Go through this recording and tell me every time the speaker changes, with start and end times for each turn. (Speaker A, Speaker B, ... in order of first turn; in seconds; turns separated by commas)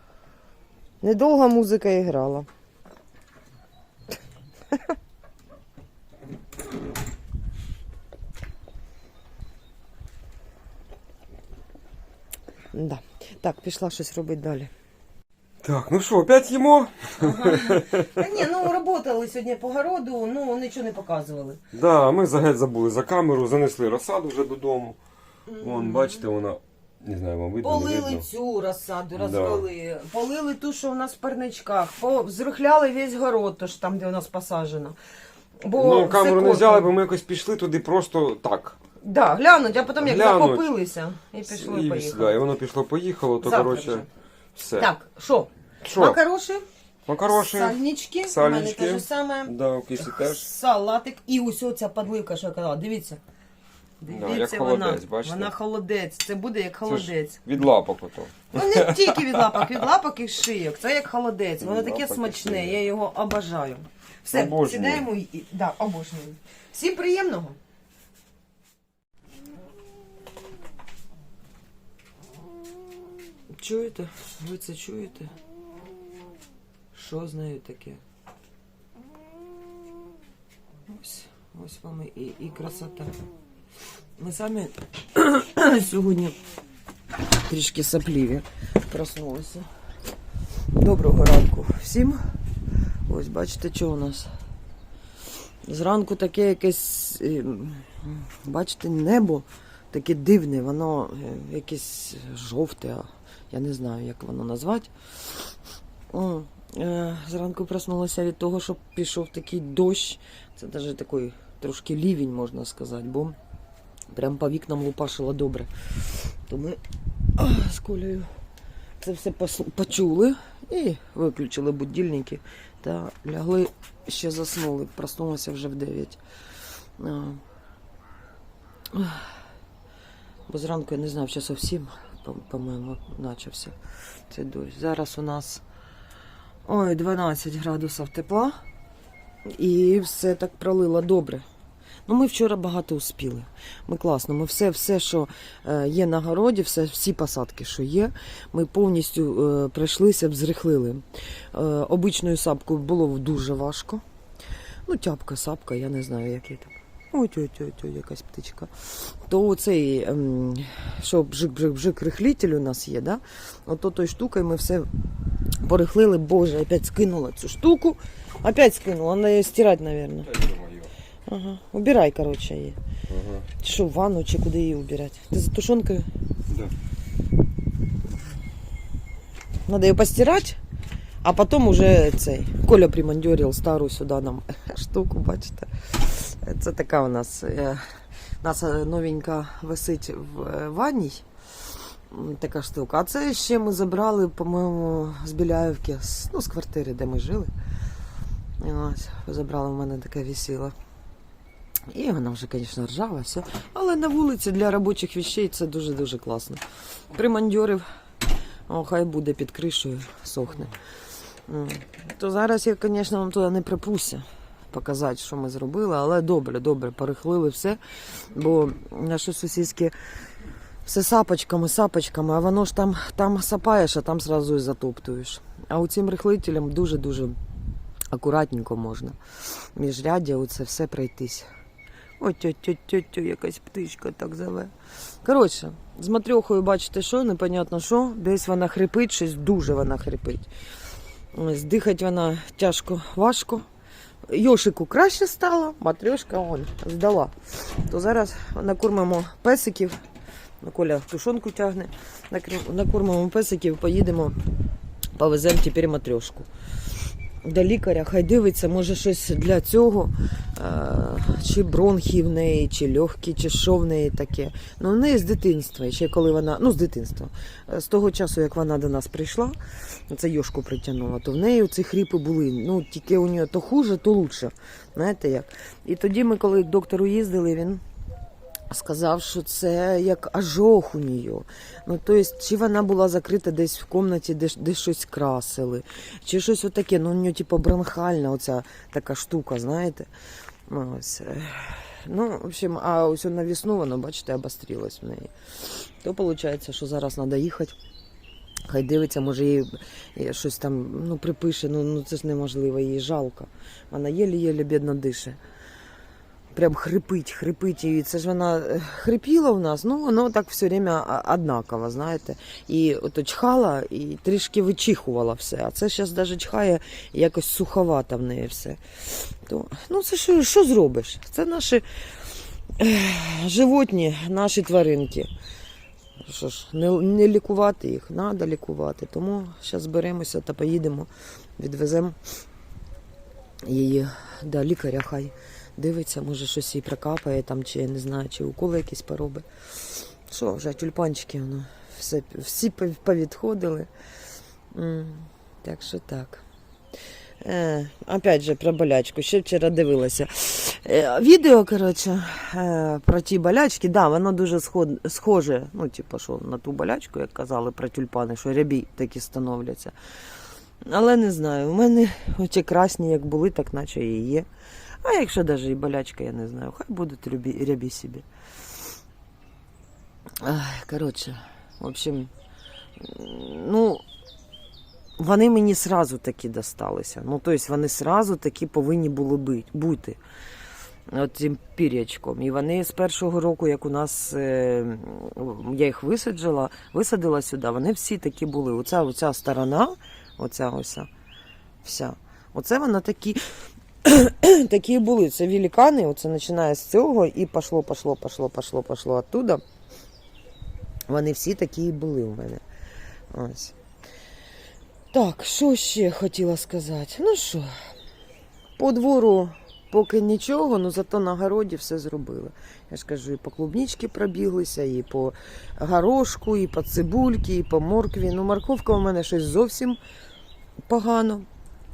Speaker A: 1.0-2.5, Speaker A: 12.7-14.7, Speaker B: 15.6-18.7, Speaker A: 17.2-21.6, Speaker B: 21.7-25.0, Speaker A: 25.5-26.2, Speaker B: 25.6-28.2, Speaker A: 27.6-35.0, Speaker B: 29.1-29.7, Speaker A: 35.6-36.9, Speaker B: 35.7-38.8, Speaker A: 39.0-42.4, Speaker B: 40.0-40.7, Speaker B: 41.4-44.9, Speaker A: 43.4-44.1, Speaker A: 44.8-46.6, Speaker B: 45.8-46.2, Speaker B: 47.1-50.5, Speaker A: 47.2-53.2, Speaker A: 54.0-57.5, Speaker B: 54.1-55.5, Speaker B: 56.8-59.8, Speaker A: 58.5-67.6, Speaker B: 61.6-62.8, Speaker B: 64.3-65.1, Speaker A: 73.5-75.3, Speaker A: 76.9-78.0, Speaker A: 80.9-83.1, Speaker A: 84.2-86.3, Speaker A: 87.5-89.7, Speaker A: 90.7-92.2, Speaker A: 93.1-94.3, Speaker A: 95.7-105.4, Speaker A: 106.1-113.3, Speaker A: 114.1-116.8, Speaker A: 117.4-118.3, Speaker A: 119.0-126.2, Speaker A: 127.0-127.4, Speaker A: 128.9-129.3, Speaker A: 130.5-133.7, Speaker A: 134.3-135.6, Speaker A: 136.7-138.6, Speaker A: 139.5-141.4, Speaker A: 142.1-154.0, Speaker A: 154.9-164.9, Speaker A: 165.6-170.4, Speaker B: 170.3-170.9, Speaker A: 171.2-172.8, Speaker B: 173.1-173.5, Speaker A: 173.6-176.1, Speaker A: 179.7-180.6, Speaker A: 181.2-187.8, Speaker A: 188.4-191.2, Speaker A: 192.1-197.5, Speaker A: 198.6-200.7, Speaker A: 201.9-207.8, Speaker A: 208.7-210.7, Speaker A: 211.5-219.9, Speaker A: 220.8-227.4, Speaker A: 228.1-231.5, Speaker A: 232.2-234.7, Speaker A: 235.2-240.5, Speaker A: 241.3-243.6, Speaker A: 244.3-250.0, Speaker A: 250.6-254.3, Speaker A: 255.2-256.5, Speaker A: 257.4-269.6, Speaker A: 270.1-277.8, Speaker A: 278.7-290.1, Speaker A: 290.7-297.7, Speaker A: 298.7-305.4, Speaker A: 306.5-321.8, Speaker A: 322.8-325.3, Speaker A: 326.2-332.2, Speaker A: 333.6-343.9, Speaker A: 344.7-346.4, Speaker A: 347.4-359.9, Speaker A: 360.8-364.5, Speaker A: 365.0-368.2, Speaker A: 370.4-372.3, Speaker A: 373.0-374.0, Speaker A: 375.2-380.2, Speaker A: 381.1-391.1, Speaker A: 391.8-393.4, Speaker A: 394.0-399.6, Speaker A: 401.1-402.6, Speaker A: 403.3-403.7, Speaker A: 405.1-407.7, Speaker A: 408.8-420.0, Speaker A: 420.9-421.4